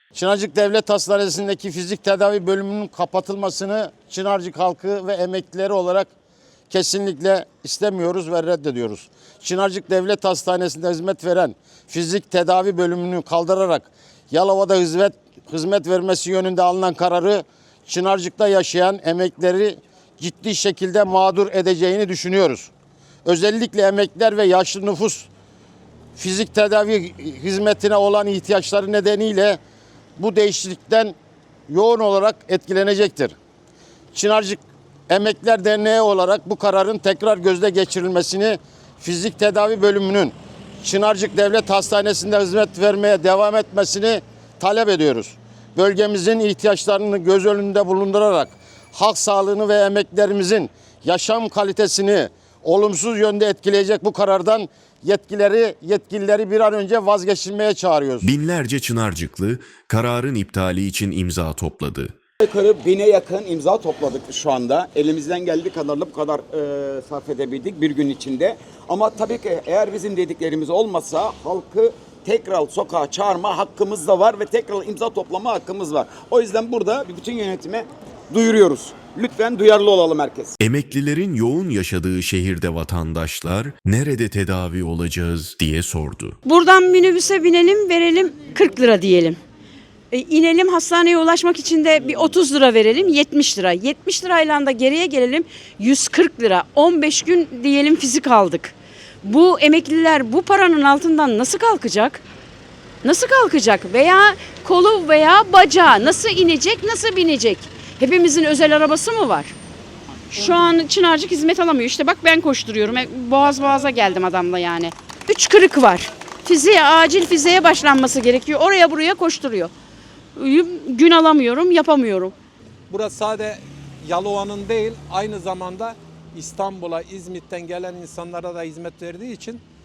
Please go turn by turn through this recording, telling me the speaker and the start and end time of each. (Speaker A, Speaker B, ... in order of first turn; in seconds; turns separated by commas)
Speaker A: 0.1-6.1, Speaker A: 6.7-22.7, Speaker A: 23.2-25.3, Speaker A: 26.1-29.6, Speaker A: 30.2-31.2, Speaker A: 31.7-33.4, Speaker A: 34.1-58.3, Speaker B: 58.2-62.1, Speaker C: 62.4-80.6, Speaker B: 80.6-86.4, Speaker D: 86.5-89.4, Speaker D: 90.1-102.2, Speaker D: 103.0-109.5, Speaker D: 110.3-119.7, Speaker D: 120.4-122.3, Speaker E: 122.9-129.6